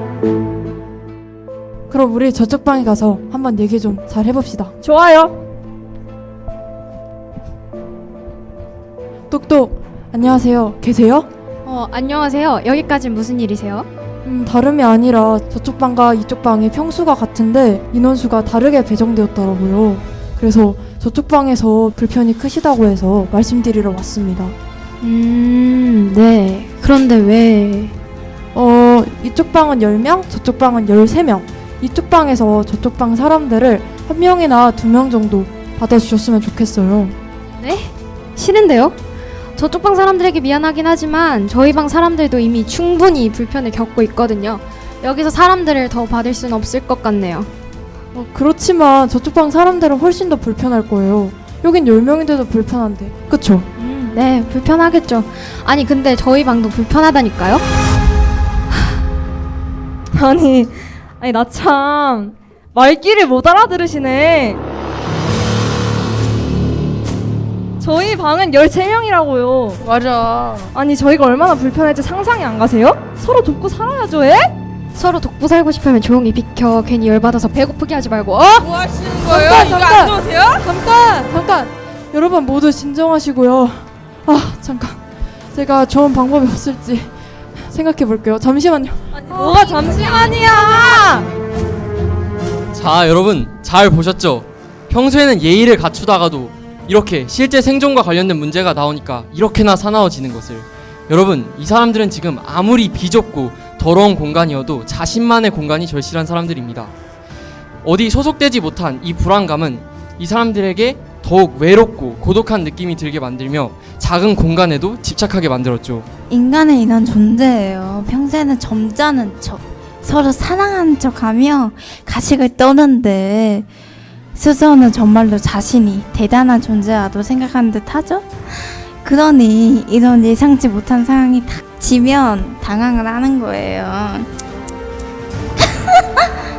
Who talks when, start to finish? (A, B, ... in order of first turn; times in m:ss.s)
0:01.9-0:04.7 A
0:04.8-0:05.4 B
0:09.3-0:11.3 A
0:11.6-0:13.9 C
0:14.2-0:24.5 A
0:25.0-0:27.9 C
0:28.5-0:37.1 A
0:37.6-0:39.0 C
0:39.5-0:47.5 C
0:48.1-0:53.7 A
0:53.8-0:57.6 C
1:00.1-1:04.6 B
1:07.8-1:09.8 B
1:09.8-1:10.7 D
1:10.7-1:14.5 B
1:14.9-1:18.7 C
1:18.6-1:20.6 D
1:19.2-1:29.5 A
1:29.2-1:31.3 B
1:30.3-1:30.6 C
1:32.7-1:46.9 E
1:47.8-1:56.1 E
1:56.3-2:03.7 F
2:04.3-2:14.3 F
2:15.9-2:16.1 F